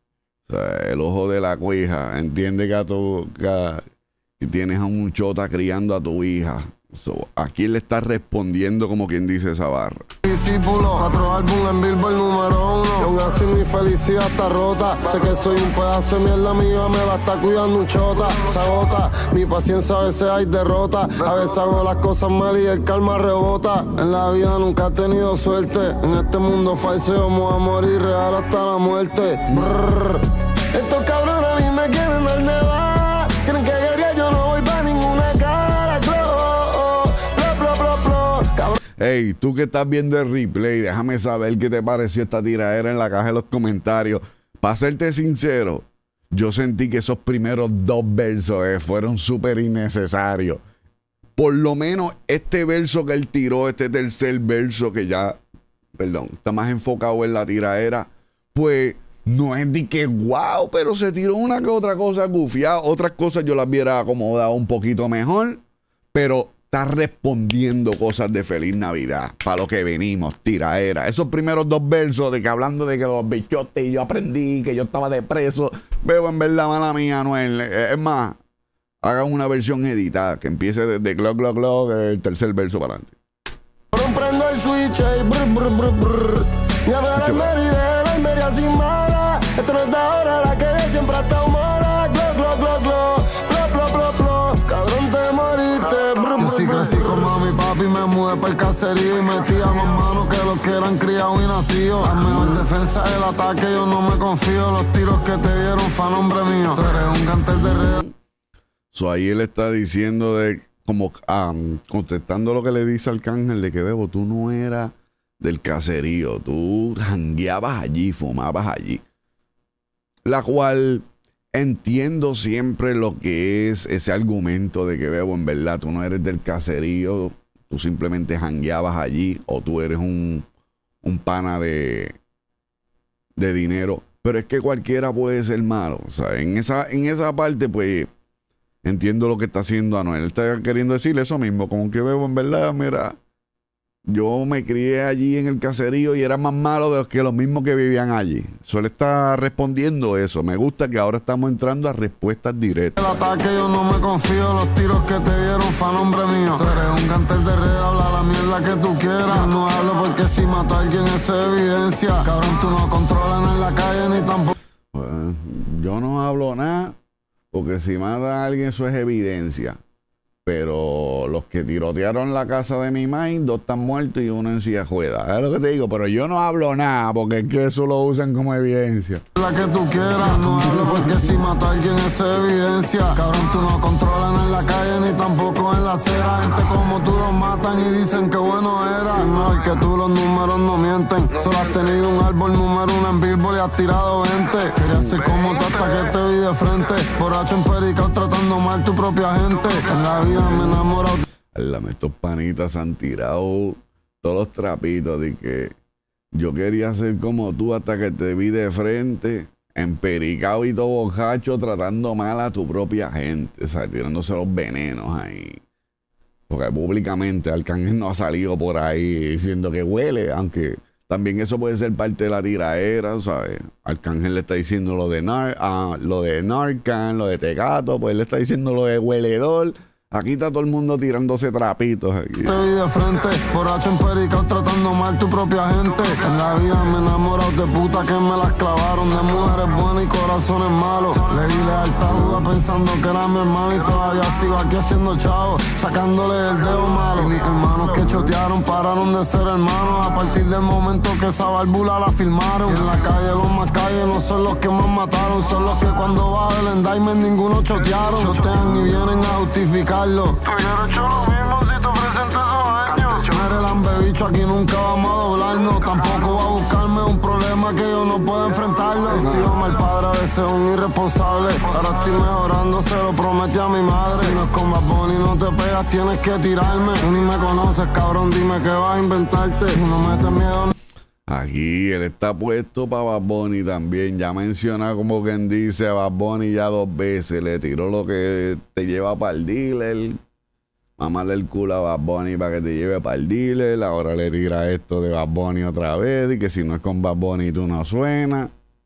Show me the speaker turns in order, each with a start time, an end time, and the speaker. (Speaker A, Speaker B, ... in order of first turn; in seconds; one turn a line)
Speaker A: 0.5-3.8
Speaker A: 4.4-10.1
Speaker B: 10.2-38.8
Speaker A: 39.0-50.6
Speaker A: 51.4-55.4
Speaker A: 56.0-65.6
Speaker A: 66.1-78.4
Speaker A: 79.0-83.2
Speaker B: 83.9-108.0
Speaker A: 87.2-87.5
Speaker A: 108.9-119.0
Speaker A: 120.2-130.4
Speaker A: 131.0-132.1
Speaker A: 133.4-138.1
Speaker A: 138.8-143.2
Speaker A: 144.1-153.0
Speaker B: 153.0-164.5
Speaker A: 164.9-166.9
Speaker A: 167.5-169.8
Speaker A: 170.4-179.2
Speaker B: 179.3-201.2
Speaker A: 201.5-205.7
Speaker A: 206.3-215.6
Speaker A: 216.5-232.6
Speaker B: 232.4-280.7
Speaker A: 281.3-290.2
Speaker A: 291.0-298.5